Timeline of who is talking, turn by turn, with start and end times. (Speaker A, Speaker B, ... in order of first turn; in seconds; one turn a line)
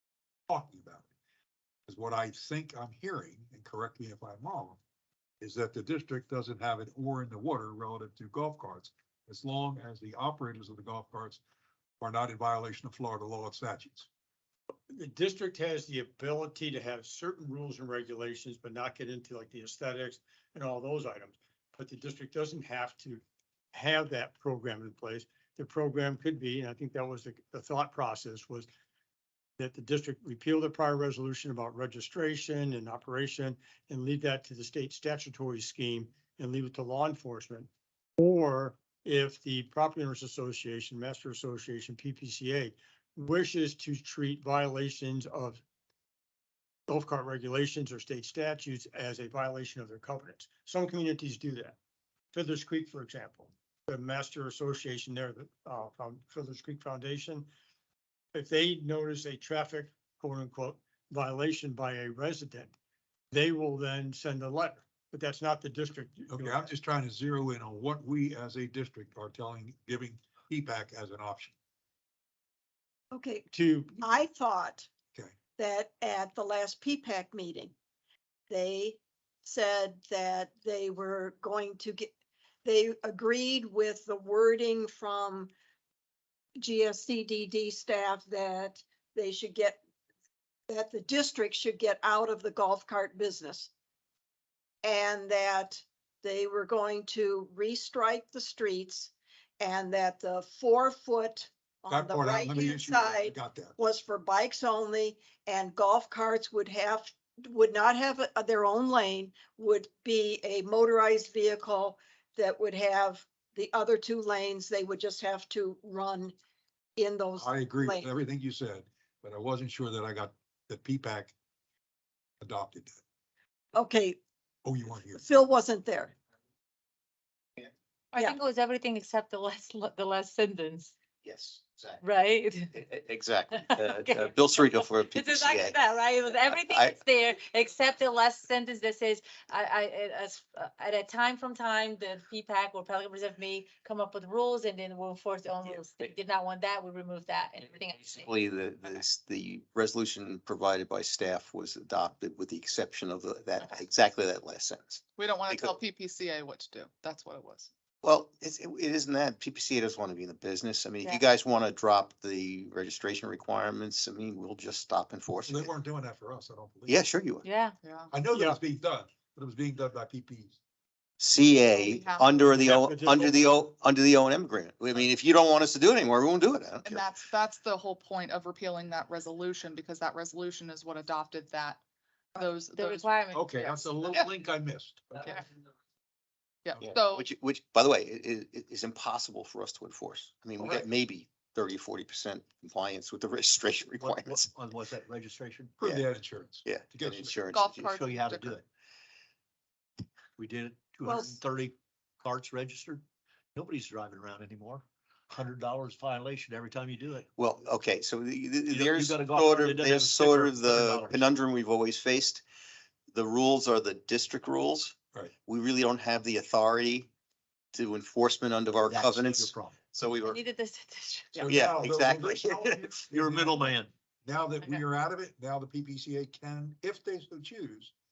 Speaker A: 0.5-1.1
Speaker A: 1.9-4.8
Speaker A: 5.4-11.4
Speaker A: 12.0-14.1
Speaker B: 14.9-23.2
Speaker B: 23.7-28.7
Speaker B: 29.6-45.6
Speaker B: 46.9-51.8
Speaker B: 52.3-57.5
Speaker B: 58.3-62.7
Speaker B: 63.3-66.7
Speaker A: 66.3-71.5
Speaker C: 73.1-74.9
Speaker B: 73.5-74.1
Speaker C: 75.6-77.7
Speaker C: 78.5-82.1
Speaker C: 82.6-85.5
Speaker C: 86.6-89.8
Speaker C: 90.7-93.7
Speaker C: 94.8-116.3
Speaker A: 101.9-103.8
Speaker C: 117.0-118.1
Speaker A: 117.4-121.3
Speaker A: 122.4-123.0
Speaker C: 123.7-124.2
Speaker A: 124.6-125.2
Speaker C: 125.1-126.1
Speaker D: 128.1-130.9
Speaker E: 131.2-132.0
Speaker D: 132.0-132.7
Speaker E: 132.7-135.8
Speaker D: 133.6-148.3
Speaker E: 136.4-137.0
Speaker E: 148.1-155.8
Speaker F: 155.2-157.7
Speaker E: 158.0-165.7
Speaker A: 165.5-167.1
Speaker E: 166.9-167.5
Speaker D: 167.4-167.8
Speaker F: 167.8-168.1
Speaker A: 168.1-170.6
Speaker B: 168.3-168.6
Speaker E: 171.2-177.1
Speaker F: 171.7-173.6
Speaker B: 172.5-173.5
Speaker F: 176.8-181.8
Speaker F: 182.3-183.9
Speaker D: 182.6-183.6
Speaker A: 183.3-185.2
Speaker F: 186.7-187.3
Speaker E: 186.8-194.5
Speaker G: 194.0-195.8
Speaker A: 195.8-197.4
Speaker E: 196.7-197.9
Speaker F: 197.5-198.6
Speaker G: 197.9-198.6
Speaker G: 200.4-203.0
Speaker C: 201.0-201.4
Speaker G: 203.6-207.3
Speaker E: 207.4-212.4
Speaker G: 208.7-211.3
Speaker E: 213.1-217.1
Speaker E: 217.7-220.4
Speaker G: 218.8-219.8
Speaker D: 220.2-221.5
Speaker A: 221.3-223.7
Speaker E: 221.5-222.9
Speaker G: 223.1-223.9
Speaker A: 224.2-227.9